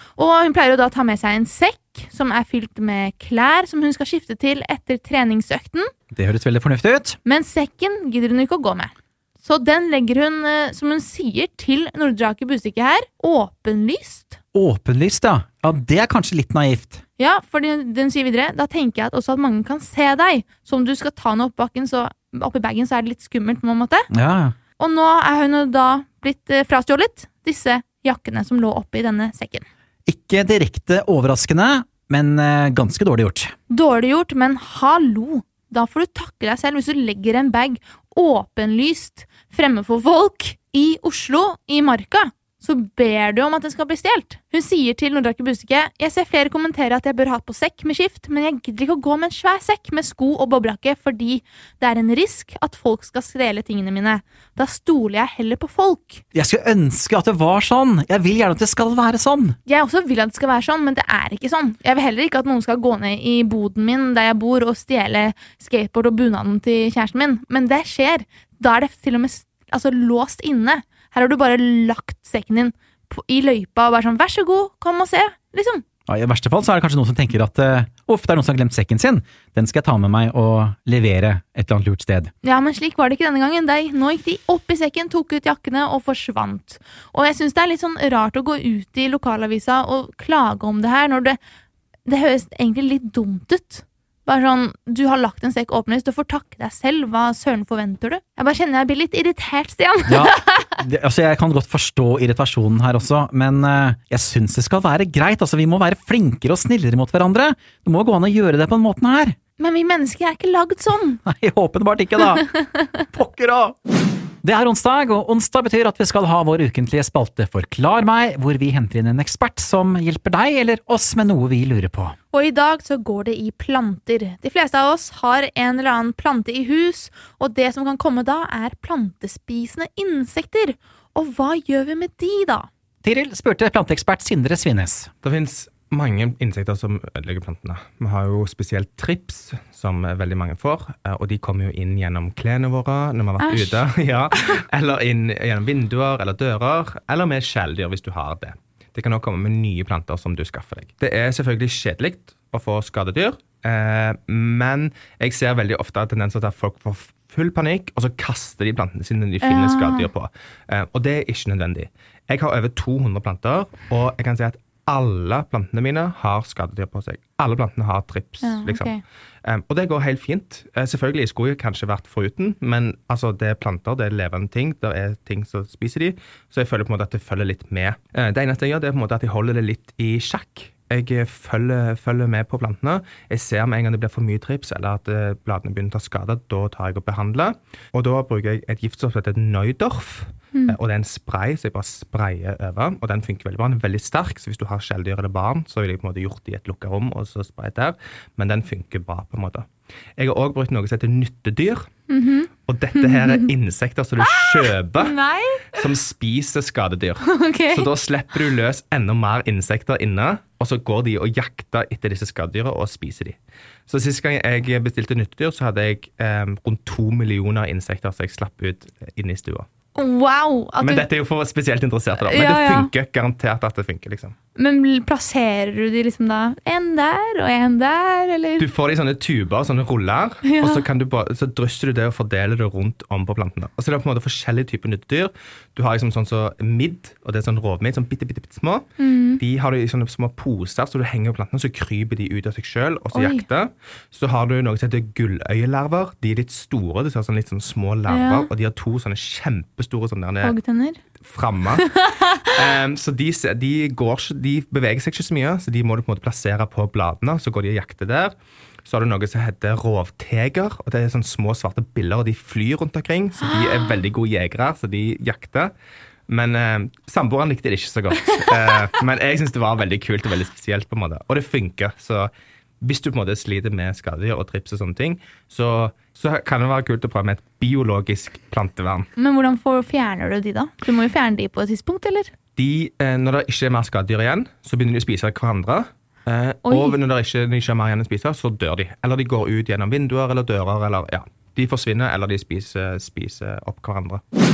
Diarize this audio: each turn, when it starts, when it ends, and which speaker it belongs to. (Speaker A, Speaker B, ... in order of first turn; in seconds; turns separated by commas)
Speaker A: 0.1-5.9, Speaker B: 6.1-7.2, Speaker A: 7.2-14.4, Speaker B: 14.5-17.0, Speaker A: 17.2-24.1, Speaker B: 24.1-24.5, Speaker A: 24.8-29.6, Speaker B: 30.1-33.5, Speaker A: 33.7-56.2, Speaker B: 56.3-59.6, Speaker A: 59.6-75.8, Speaker B: 76.1-82.3, Speaker A: 82.4-91.4, Speaker A: 92.0-100.7, Speaker B: 100.1-109.3, Speaker A: 109.6-111.2, Speaker B: 111.2-113.8, Speaker B: 114.4-122.2, Speaker A: 122.3-132.7, Speaker B: 133.0-135.1, Speaker C: 135.2-201.9, Speaker A: 143.4-143.8, Speaker A: 159.4-160.1, Speaker A: 168.4-169.0, Speaker A: 202.1-203.4, Speaker C: 202.7-205.2, Speaker A: 204.2-205.9, Speaker C: 205.7-219.7, Speaker A: 207.2-207.9, Speaker A: 219.9-221.1, Speaker C: 220.8-224.3, Speaker A: 222.2-222.9, Speaker A: 224.6-228.7, Speaker C: 228.6-238.9, Speaker A: 230.4-230.8, Speaker A: 239.0-239.4, Speaker C: 239.4-250.5, Speaker A: 243.1-243.4, Speaker A: 248.1-248.5, Speaker A: 250.4-251.0, Speaker C: 251.2-258.3, Speaker A: 251.8-252.5, Speaker C: 258.9-265.7, Speaker C: 266.3-272.3, Speaker C: 272.8-279.1, Speaker A: 279.1-282.3, Speaker C: 282.6-294.2, Speaker A: 286.6-287.0